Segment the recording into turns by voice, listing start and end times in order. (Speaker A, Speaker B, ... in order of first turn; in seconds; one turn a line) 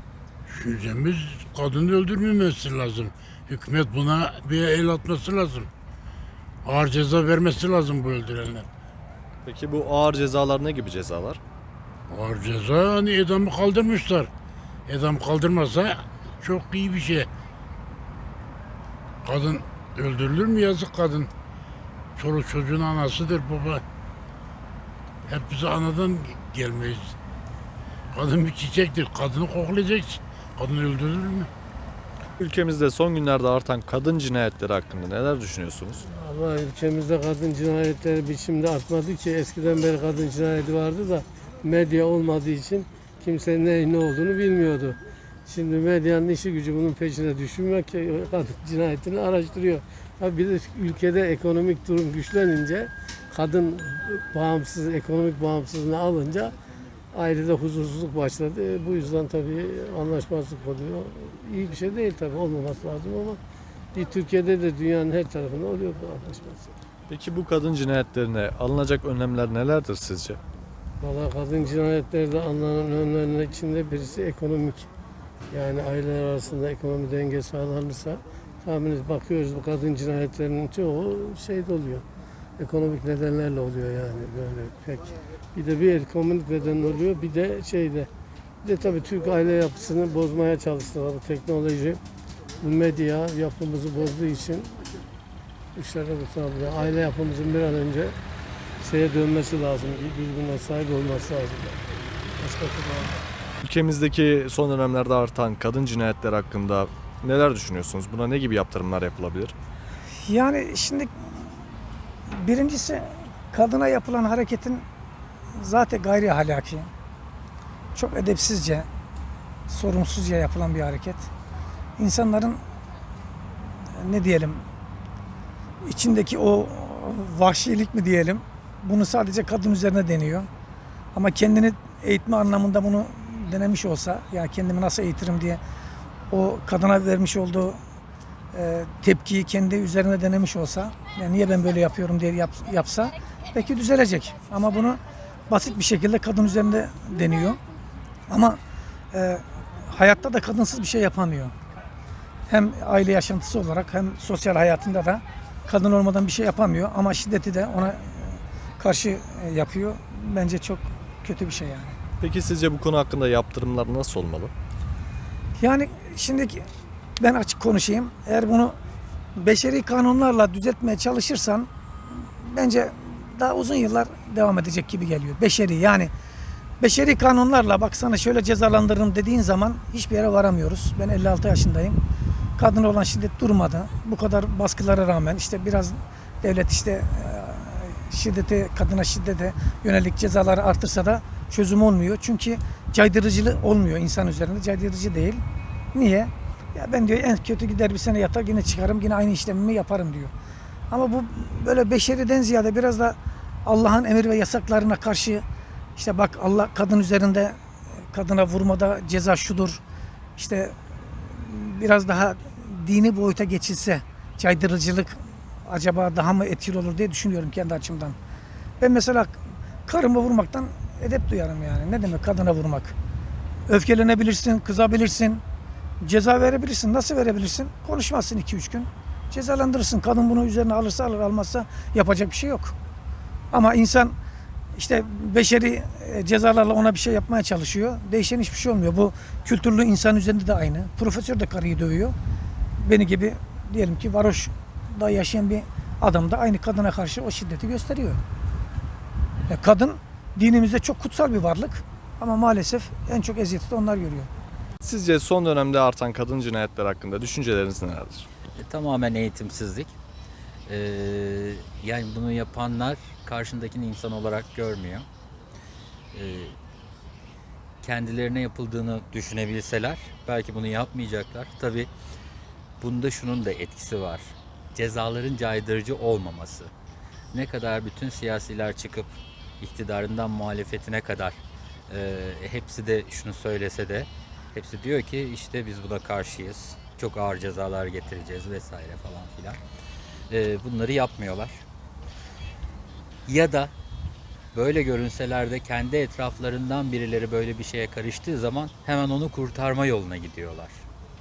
Speaker A: 0.5-5.7
Speaker A: 6.7-8.7
Speaker B: 9.4-11.4
Speaker A: 12.1-14.3
Speaker A: 14.9-17.3
Speaker A: 19.2-21.3
Speaker A: 22.2-23.8
Speaker A: 25.3-27.1
Speaker A: 28.1-31.5
Speaker B: 32.4-36.0
Speaker C: 36.1-56.5
Speaker C: 57.1-63.4
Speaker C: 63.9-66.7
Speaker B: 67.1-70.4
Speaker C: 71.0-74.9
Speaker C: 75.5-82.0
Speaker C: 82.6-88.1
Speaker C: 88.6-92.0
Speaker C: 92.6-94.8
Speaker C: 95.8-98.2
Speaker C: 98.8-101.8
Speaker C: 102.4-103.2
Speaker B: 103.6-109.5
Speaker D: 110.3-111.3
Speaker D: 112.3-114.8
Speaker D: 115.6-116.9
Speaker D: 118.0-118.9
Speaker D: 119.7-121.3
Speaker D: 122.0-122.6
Speaker D: 124.0-124.7
Speaker D: 125.8-130.5
Speaker D: 131.1-135.6
Speaker D: 136.3-137.8
Speaker D: 138.5-147.6
Speaker D: 148.3-148.6
Speaker D: 149.1-151.5
Speaker D: 152.5-162.0
Speaker B: 162.2-164.5
Speaker D: 165.6-166.7
Speaker D: 167.2-168.8
Speaker D: 169.4-171.7
Speaker D: 172.4-176.1
Speaker D: 176.8-182.0
Speaker D: 182.6-195.4
Speaker D: 195.9-200.3
Speaker D: 200.9-205.4
Speaker D: 206.0-207.6
Speaker D: 208.1-209.8
Speaker D: 210.4-218.2
Speaker D: 218.8-222.9
Speaker D: 223.7-225.4
Speaker D: 226.0-232.8
Speaker D: 233.5-234.2
Speaker D: 234.8-242.2
Speaker D: 242.8-248.2
Speaker D: 249.5-254.3
Speaker B: 254.8-258.3
Speaker E: 258.6-259.9
Speaker E: 260.7-265.1
Speaker E: 266.1-266.6
Speaker E: 267.8-271.9
Speaker E: 272.8-276.7
Speaker E: 277.3-279.1
Speaker E: 279.6-281.4
Speaker E: 281.9-289.6
Speaker E: 290.3-291.6
Speaker E: 293.3-293.7
Speaker E: 294.5-300.8